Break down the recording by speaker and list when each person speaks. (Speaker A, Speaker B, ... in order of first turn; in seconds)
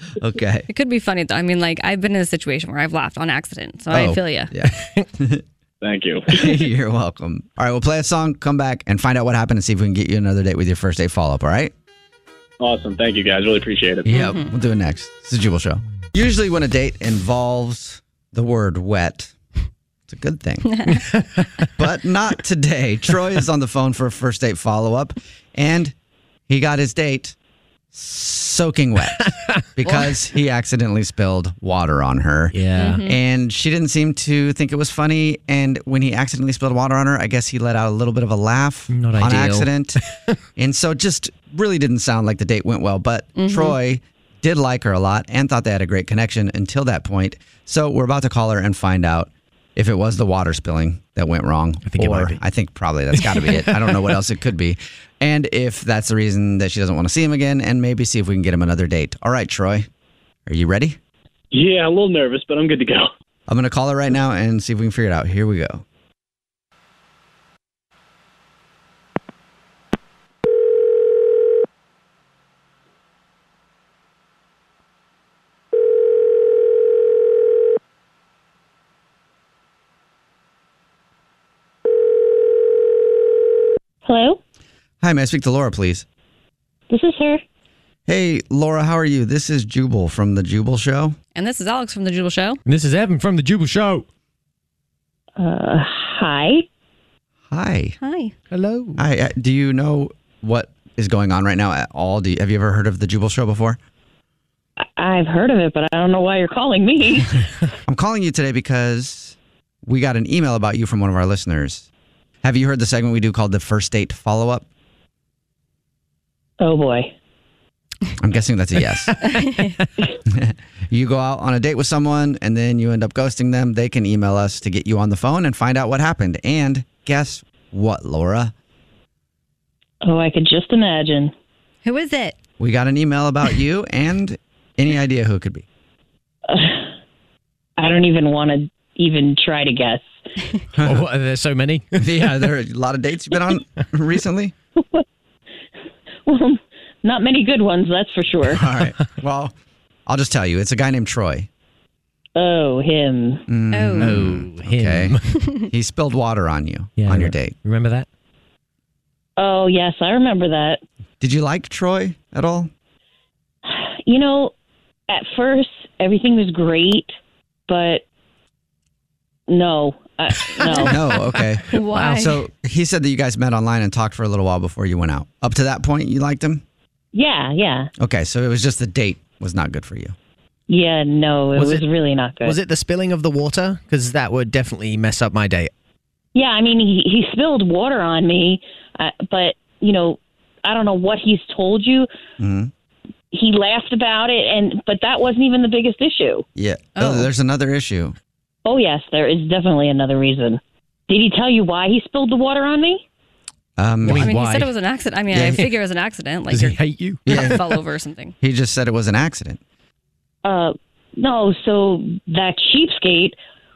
Speaker A: 0.2-0.7, 3.9-5.4, 6.3-11.7, 14.1-19.4, 20.1-25.9, 26.5-27.4, 27.9-29.2, 29.7-40.0, 40.6-59.9, 60.5-61.0, 63.5-65.8, 85.0-86.1, 88.1-91.2, 97.5-98.0, 99.0-103.8, 107.9-111.9, 112.4-114.7, 118.2-119.5, 120.2-128.5, 132.6-135.7, 140.8-141.1, 142.0-144.5, 148.4-149.5, 150.1-151.5, 153.5-157.6, 161.2-162.7, 170.8-176.6, 178.0-180.2, 192.4-192.7, 196.6-198.2, 203.8-204.3, 205.3-205.6, 207.2-207.6, 208.4-209.6
Speaker B: 0.7-4.5, 14.1-14.5, 20.7-21.0, 32.8-33.2, 43.4-43.8, 91.3-92.6, 98.0-98.3, 119.3-119.7, 131.8-132.4, 153.7-154.2, 171.7-172.3, 196.9-197.3, 204.2-208.3
Speaker C: 5.8-6.6, 12.6-14.2, 61.5-63.1
Speaker D: 21.1-21.7, 29.2-29.6, 32.5-33.0, 38.9-40.4, 51.9-52.4, 53.1-54.1, 92.7-94.1, 98.5-99.0, 140.8-142.5, 153.9-155.4, 157.0-158.1, 170.5-171.2, 172.0-172.2, 181.5-181.9, 182.4-185.7, 204.1-204.7, 206.5-207.8
Speaker E: 84.0-84.4, 86.9-87.4, 95.4-96.7, 104.8-107.5, 116.6-117.1, 130.0-131.3, 136.5-136.9, 137.8-140.6, 144.8-145.1, 146.2-148.7, 152.3-153.5, 159.4-160.8, 163.7-164.5, 165.1-167.1, 167.7-168.1, 169.5-170.9, 177.1-177.9, 180.7-182.6, 186.3-192.1, 193.3-196.4, 198.7-203.1, 210.4-213.4